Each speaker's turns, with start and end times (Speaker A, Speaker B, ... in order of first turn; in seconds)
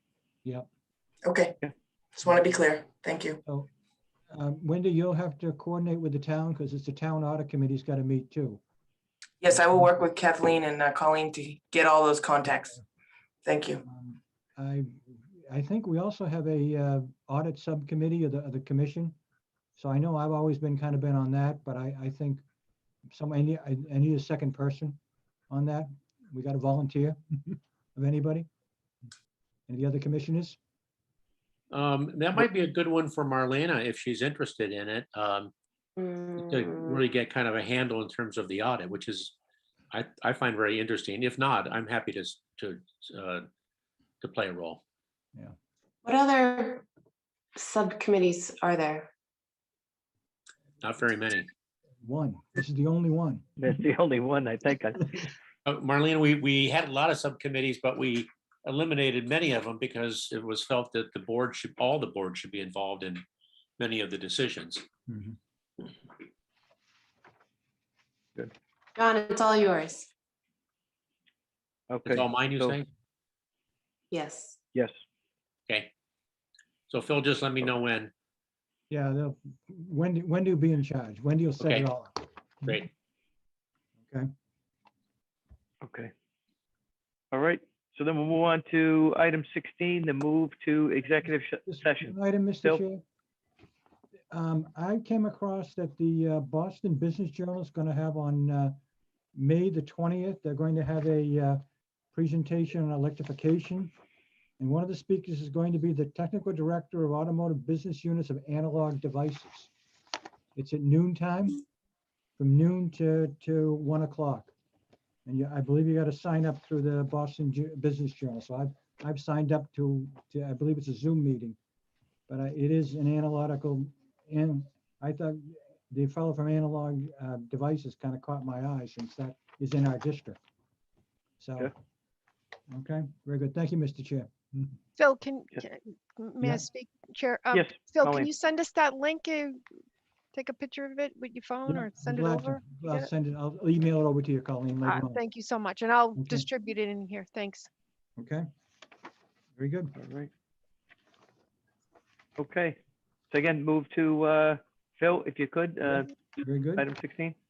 Speaker A: 1.2-1.6, 2.2-3.4, 9.4-12.8, 13.4-13.8
Speaker B: 3.5-3.7, 4.3-8.6, 9.5-10.0, 13.8-19.1, 19.8-22.4, 23.1-25.0, 25.5-28.5, 29.7-30.6, 52.0-53.5, 65.1-65.3, 78.9-82.8, 84.0-84.3, 91.7-93.0, 94.3-98.7, 99.3-101.6, 102.1-103.9, 104.6-109.7, 110.5-111.6, 112.4-114.5, 115.2-121.6, 122.3-130.4, 131.4-131.7, 132.7-134.8, 141.7-145.2, 146.2-146.4, 148.2-148.4, 149.6-149.9, 156.4-156.9
Speaker C: 31.7-35.5, 36.4-39.3, 39.9-43.5, 44.2-44.8, 50.8-51.5, 55.7-63.2, 63.8-64.8, 72.1-72.9, 76.9-78.1, 81.6-81.9
Speaker D: 36.0-36.9, 46.0-46.9, 47.5-49.1, 69.0-70.1, 74.1-74.6
Speaker E: 53.6-55.1, 71.9-72.8, 85.8-86.1, 87.3-92.8, 137.5-138.3, 150.0-150.3, 152.4-152.8, 153.3-156.2, 156.8-157.3
Speaker F: 135.0-139.6, 140.3-143.1, 144.8-147.7